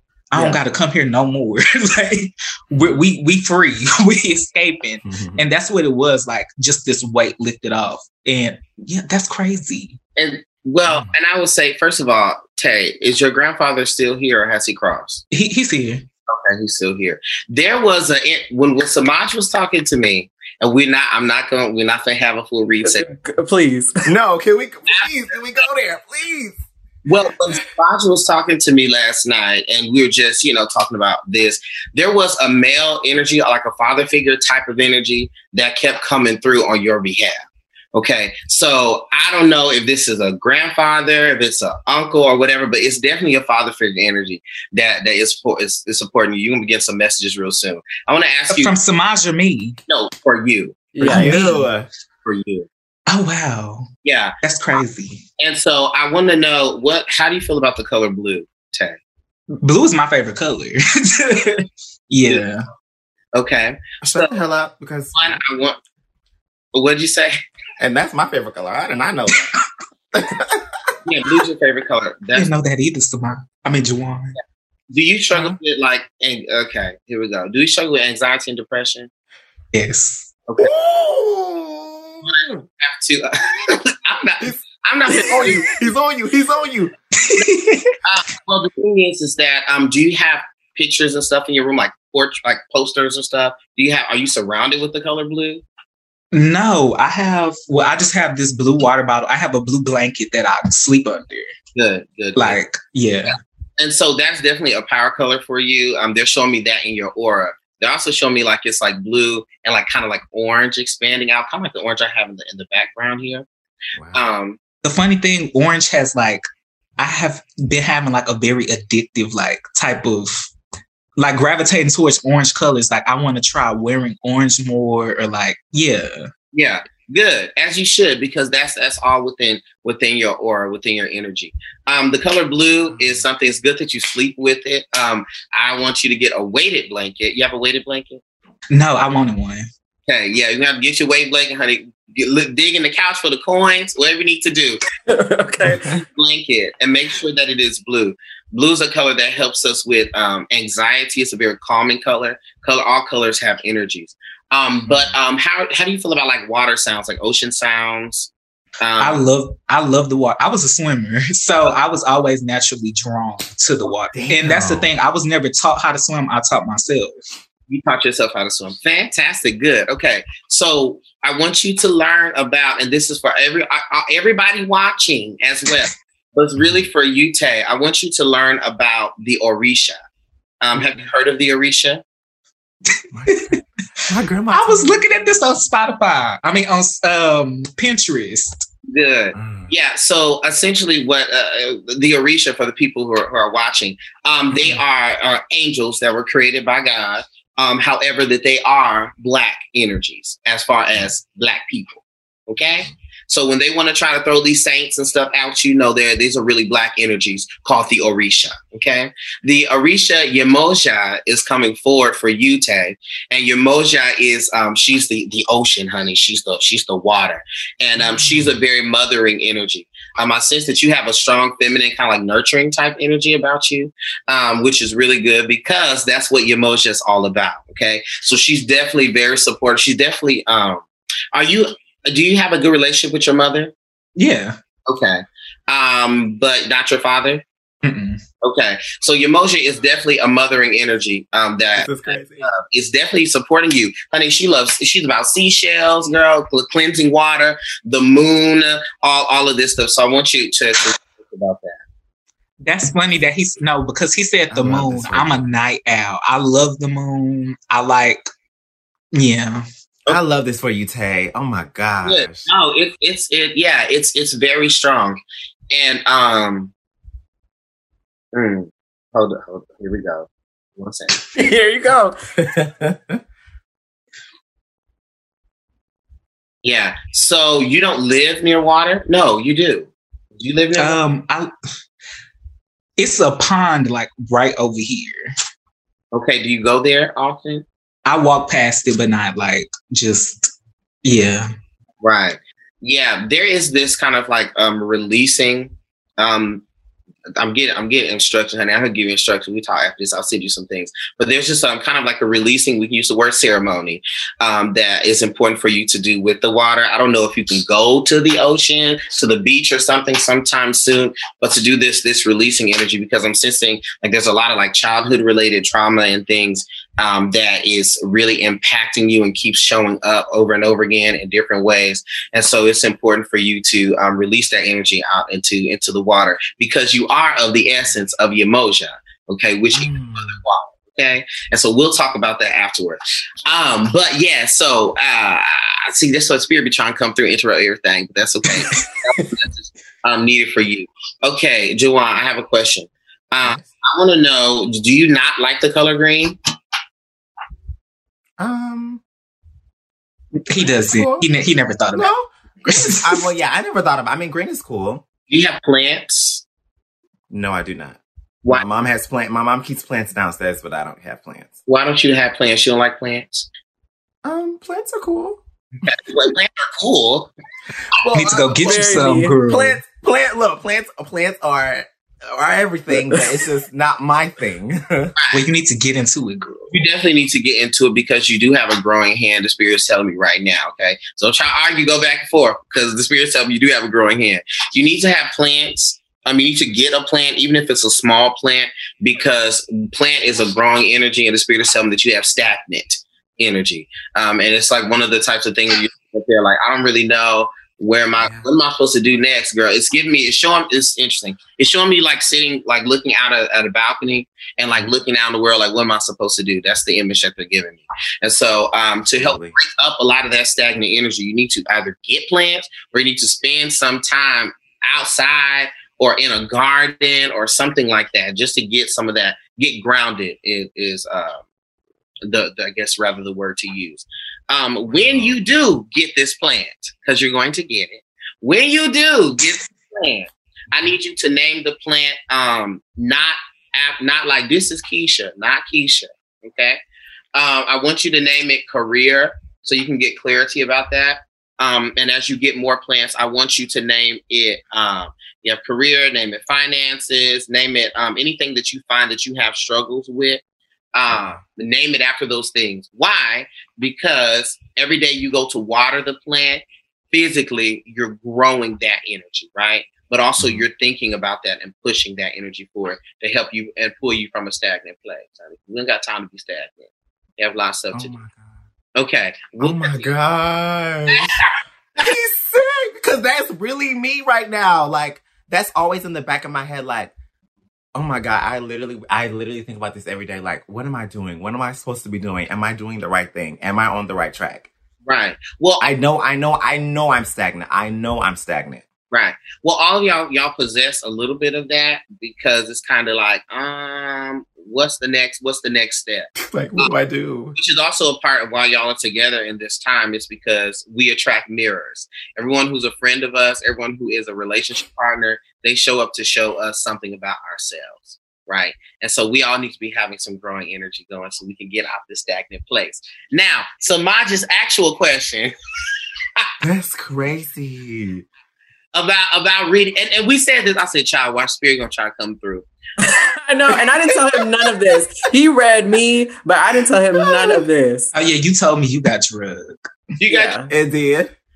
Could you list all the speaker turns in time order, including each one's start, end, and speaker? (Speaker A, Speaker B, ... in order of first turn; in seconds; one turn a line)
Speaker A: 0.3-10.0
Speaker B: 5.0-5.4
Speaker C: 10.2-15.2
Speaker A: 15.3-16.1
Speaker C: 16.3-23.1
Speaker D: 22.8-23.9
Speaker B: 24.1-26.6
Speaker C: 27.1-37.4
Speaker C: 37.9-48.7
Speaker A: 48.5-49.8
Speaker C: 49.9-50.9
Speaker D: 50.9-51.4
Speaker B: 51.0-51.9
Speaker A: 51.0-51.7
Speaker C: 52.2-52.7
Speaker A: 53.1-53.9
Speaker C: 54.0-54.3
Speaker A: 54.4-55.2
Speaker C: 55.4-59.0
Speaker A: 59.6-62.6
Speaker C: 63.3-64.3
Speaker B: 64.0-65.4
Speaker C: 65.2-65.8
Speaker C: 66.7-67.4
Speaker B: 67.8-69.5
Speaker B: 70.1-70.9
Speaker C: 71.1-72.5
Speaker A: 72.3-74.3
Speaker C: 74.9-79.1
Speaker A: 79.7-80.3
Speaker C: 80.5-80.7
Speaker B: 80.6-82.3
Speaker C: 82.3-85.7
Speaker B: 84.4-86.9
Speaker A: 87.2-87.9
Speaker C: 88.0-95.6
Speaker A: 96.3-101.5
Speaker C: 101.8-102.6
Speaker A: 102.4-103.3
Speaker C: 103.3-113.5
Speaker B: 113.9-114.2
Speaker C: 114.1-114.6
Speaker A: 114.8-116.4
Speaker A: 117.0-120.5
Speaker A: 121.2-126.3
Speaker C: 126.5-138.2
Speaker B: 132.9-133.3
Speaker A: 138.7-139.7
Speaker C: 140.1-144.8
Speaker D: 145.1-146.0
Speaker C: 145.9-158.3
Speaker C: 158.8-159.2
Speaker A: 159.0-167.1
Speaker B: 164.1-164.9
Speaker C: 167.7-180.0
Speaker B: 176.6-176.9
Speaker C: 180.6-182.0
Speaker B: 183.1-185.0
Speaker A: 183.3-183.6
Speaker A: 184.5-188.6
Speaker C: 188.9-233.7
Speaker B: 189.3-189.7
Speaker B: 194.5-194.8
Speaker B: 218.0-218.6
Speaker A: 234.2-234.6
Speaker C: 234.9-237.4
Speaker A: 237.8-238.2
Speaker C: 238.4-251.8
Speaker B: 241.8-242.5
Speaker A: 252.6-258.3
Speaker B: 254.5-255.4
Speaker A: 259.1-259.6
Speaker B: 260.1-262.5
Speaker C: 262.0-265.2
Speaker C: 265.7-266.7
Speaker C: 268.3-271.2
Speaker D: 271.4-272.2
Speaker B: 272.4-273.2
Speaker C: 276.6-281.0
Speaker A: 280.8-281.5
Speaker A: 283.0-285.3
Speaker C: 286.1-287.6
Speaker A: 288.1-290.5
Speaker A: 291.0-291.5
Speaker C: 292.0-296.6
Speaker C: 297.4-346.4
Speaker B: 329.7-330.4
Speaker B: 348.4-349.0
Speaker A: 350.5-352.1
Speaker B: 350.6-351.3
Speaker B: 351.9-355.1
Speaker A: 352.7-353.2
Speaker C: 355.3-356.4
Speaker B: 357.3-361.6
Speaker C: 361.7-363.5
Speaker B: 364.2-365.4
Speaker C: 365.8-367.3
Speaker B: 368.0-368.9
Speaker C: 368.0-368.4
Speaker A: 368.1-369.8
Speaker D: 368.6-369.4
Speaker B: 369.5-375.1
Speaker C: 375.2-375.5
Speaker A: 375.3-376.7
Speaker C: 376.7-421.4
Speaker B: 398.2-398.5
Speaker B: 409.1-409.5
Speaker C: 422.3-436.8
Speaker B: 424.9-425.4
Speaker C: 437.4-450.4
Speaker C: 450.9-468.1
Speaker B: 451.1-451.4
Speaker B: 460.4-460.6
Speaker B: 467.9-468.6
Speaker C: 469.0-470.1
Speaker B: 469.6-471.4
Speaker C: 471.1-471.5
Speaker B: 472.0-477.1
Speaker B: 477.9-484.7
Speaker C: 485.1-485.9
Speaker B: 485.8-488.9
Speaker C: 489.1-496.9
Speaker B: 496.4-497.6
Speaker C: 497.6-515.5
Speaker B: 516.6-518.2
Speaker C: 518.9-522.7
Speaker D: 523.0-528.1
Speaker A: 528.1-529.8
Speaker C: 530.2-530.6
Speaker D: 530.3-530.7
Speaker B: 530.7-531.3